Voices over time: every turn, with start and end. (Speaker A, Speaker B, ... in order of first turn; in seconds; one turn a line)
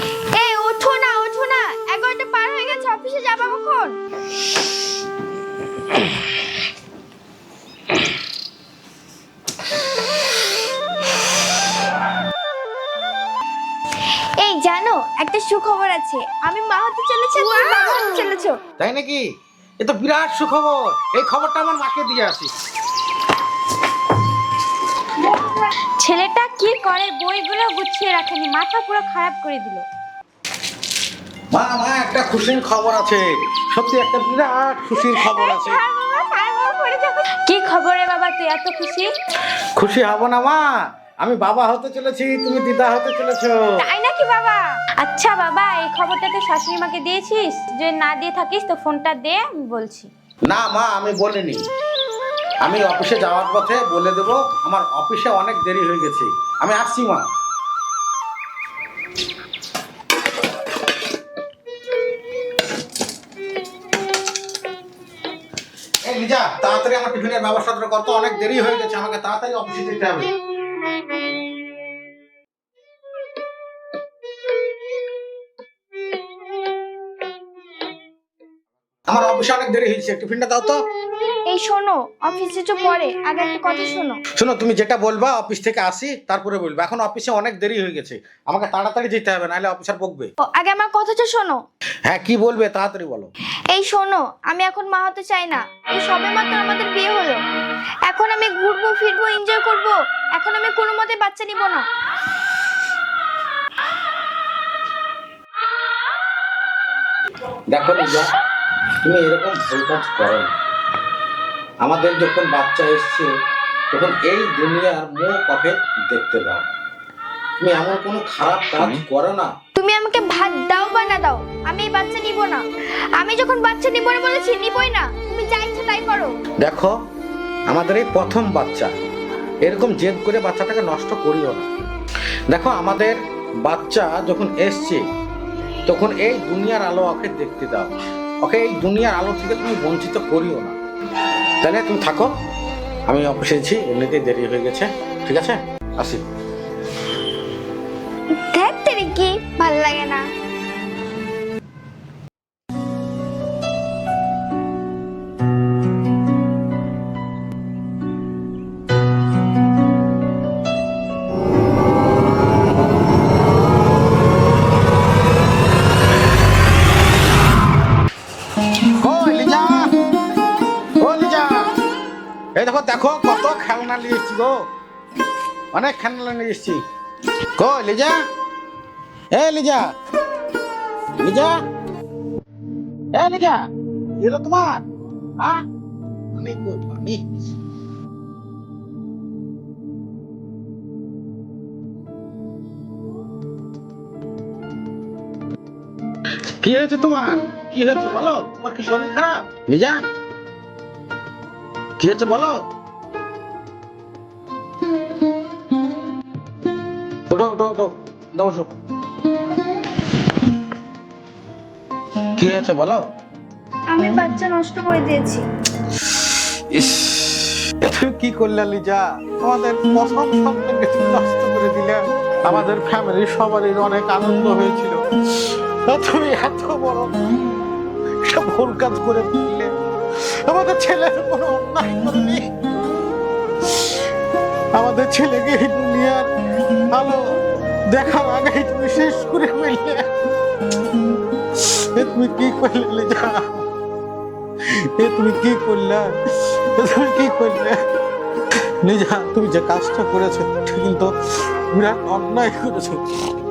Speaker A: 0.3-4.0
Speaker A: 14.4-18.6
Speaker B: 18.8-19.2
Speaker B: 19.8-22.5
Speaker C: 26.0-29.9
Speaker B: 31.5-35.8
Speaker C: 35.2-39.1
Speaker B: 39.8-43.8
Speaker C: 43.8-50.1
Speaker B: 50.5-51.7
Speaker B: 52.6-57.3
Speaker B: 66.0-70.3
Speaker B: 79.1-80.8
Speaker A: 81.5-84.2
Speaker B: 84.4-90.3
Speaker A: 90.4-91.6
Speaker B: 92.1-93.3
Speaker A: 93.7-97.4
Speaker A: 98.1-101.9
Speaker B: 107.7-108.4
Speaker B: 109.0-110.5
Speaker B: 111.8-113.3
Speaker B: 113.9-116.7
Speaker B: 117.6-119.5
Speaker A: 119.8-122.6
Speaker A: 123.2-126.3
Speaker B: 126.6-127.0
Speaker B: 127.7-128.9
Speaker B: 129.6-131.7
Speaker B: 132.5-135.0
Speaker B: 135.9-140.8
Speaker B: 141.6-142.3
Speaker B: 143.1-146.2
Speaker A: 148.4-150.2
Speaker B: 169.0-169.9
Speaker B: 171.0-171.6
Speaker B: 172.6-174.6
Speaker B: 175.7-176.8
Speaker B: 177.6-178.2
Speaker B: 179.3-179.9
Speaker B: 181.2-181.6
Speaker B: 183.1-183.6
Speaker B: 184.2-184.8
Speaker B: 186.3-187.2
Speaker B: 196.6-200.0
Speaker B: 202.0-202.6
Speaker B: 207.3-208.7
Speaker B: 212.4-213.1
Speaker A: 213.9-215.4
Speaker B: 216.7-227.1
Speaker B: 228.2-229.7
Speaker B: 230.5-232.4
Speaker B: 234.8-236.3
Speaker B: 236.9-237.2
Speaker B: 237.9-240.1
Speaker B: 241.6-243.6
Speaker B: 244.9-247.8
Speaker B: 248.8-251.1
Speaker B: 251.7-253.0